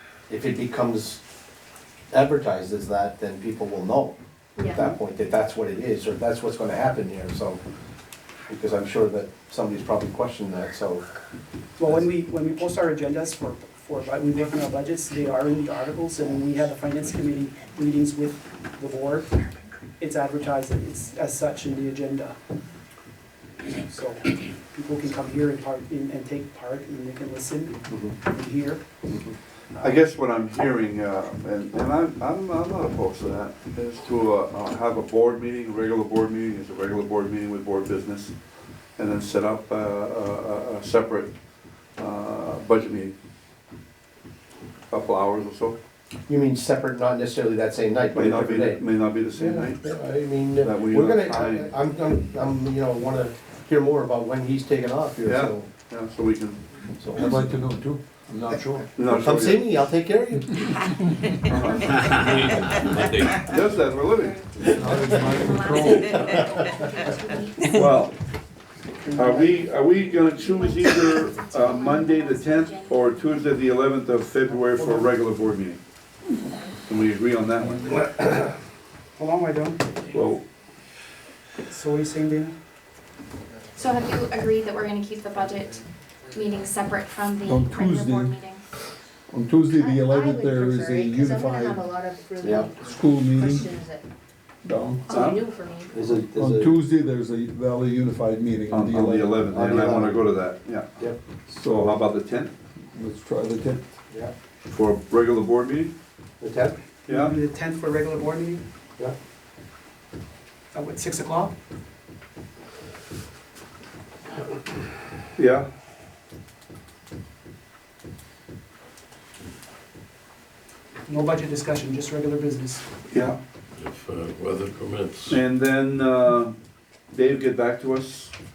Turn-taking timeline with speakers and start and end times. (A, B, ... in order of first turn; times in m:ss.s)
0:00.3-0:01.2 A
0:02.1-0:04.2 A
0:04.6-0:04.8 B
0:04.7-0:07.6 A
0:08.5-0:11.0 A
0:11.8-0:19.4 C
0:20.0-0:22.4 C
0:23.8-0:28.9 C
0:27.9-0:28.2 A
0:29.8-0:38.3 D
0:39.0-0:41.3 D
0:42.0-0:43.1 D
0:44.9-0:45.8 D
0:46.3-0:55.7 A
0:48.1-0:49.8 D
0:50.6-0:51.7 D
0:55.2-0:56.6 D
0:57.0-0:57.4 A
0:57.2-0:58.9 E
0:59.0-0:59.8 D
0:59.0-1:00.7 A
1:01.5-1:01.9 D
1:01.6-1:08.1 F
1:02.0-1:03.3 G
1:03.4-1:04.4 D
1:04.7-1:06.3 E
1:04.7-1:05.3 A
1:07.7-1:08.2 D
1:09.0-1:09.6 C
1:09.2-1:15.8 D
1:09.9-1:13.5 F
1:14.7-1:15.2 C
1:16.9-1:18.4 D
1:19.2-1:19.9 C
1:20.0-1:20.4 D
1:21.7-1:22.6 C
1:23.8-1:28.6 F
1:27.4-1:28.4 E
1:29.3-1:31.8 E
1:29.7-1:34.0 B
1:32.4-1:32.7 A
1:32.8-1:33.7 E
1:34.6-1:35.2 E
1:35.1-1:36.2 B
1:35.1-1:35.4 D
1:35.9-1:36.7 A
1:36.2-1:39.4 E
1:38.7-1:41.1 D
1:39.5-1:40.4 A
1:41.0-1:41.7 A
1:41.6-1:42.0 E
1:41.7-1:42.5 D
1:42.9-1:43.9 E
1:44.7-1:45.9 D
1:46.4-1:46.8 A
1:47.1-1:47.4 D
1:47.1-1:48.6 C
1:50.7-1:51.5 C
1:55.4-1:55.7 D
2:01.1-2:02.8 C
2:03.1-2:03.4 D
2:03.8-2:05.4 G
2:05.3-2:06.6 D
2:07.1-2:08.3 D